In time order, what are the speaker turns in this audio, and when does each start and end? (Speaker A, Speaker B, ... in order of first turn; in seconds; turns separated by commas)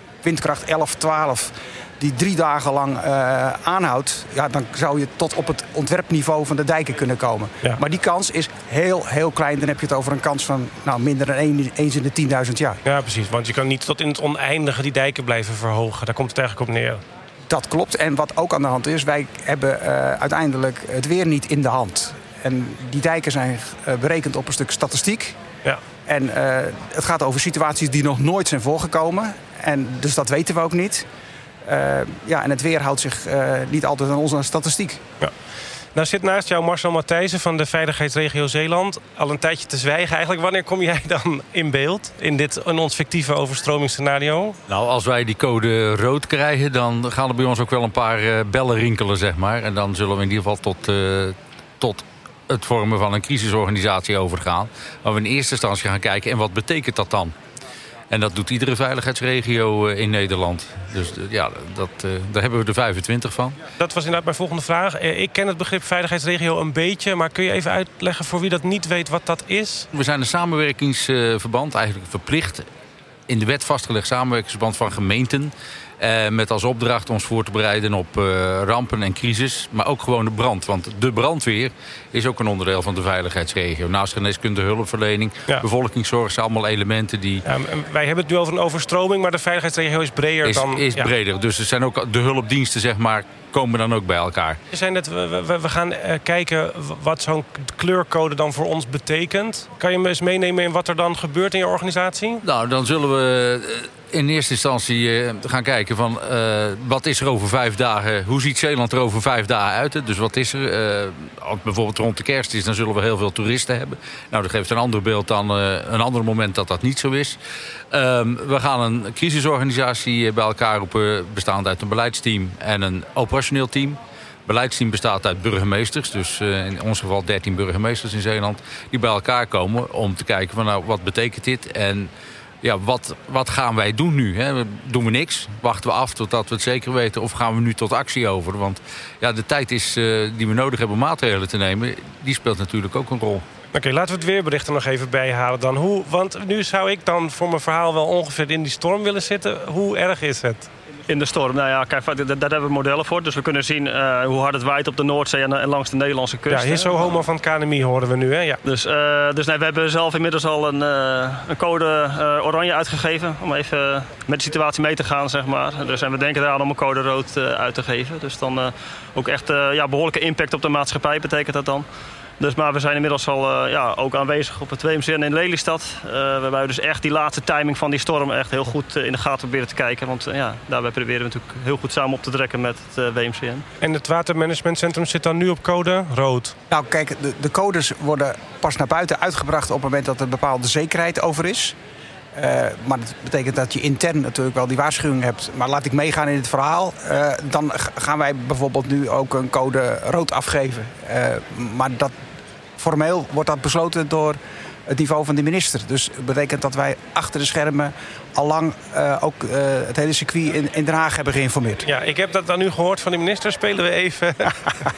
Speaker A: 0.2-12.8, Speaker B: 12.8-17.0, Speaker A: 17.5-25.4, Speaker A: 26.1-31.1, Speaker A: 31.6-35.0, Speaker B: 35.9-44.6, Speaker C: 44.7-57.3, Speaker C: 58.1-63.6, Speaker B: 63.8-69.9, Speaker C: 69.9-72.6, Speaker C: 73.3-87.4, Speaker B: 87.4-91.1, Speaker C: 90.4-94.6, Speaker B: 94.7-102.4, Speaker C: 102.4-117.4, Speaker C: 117.9-132.1, Speaker C: 132.6-143.4, Speaker B: 143.7-150.7, Speaker D: 151.1-157.2, Speaker B: 156.5-158.6, Speaker D: 158.6-171.8, Speaker D: 172.4-183.7, Speaker B: 183.8-186.5, Speaker A: 186.7-191.7, Speaker A: 192.3-202.1, Speaker A: 202.8-211.8, Speaker B: 211.8-214.7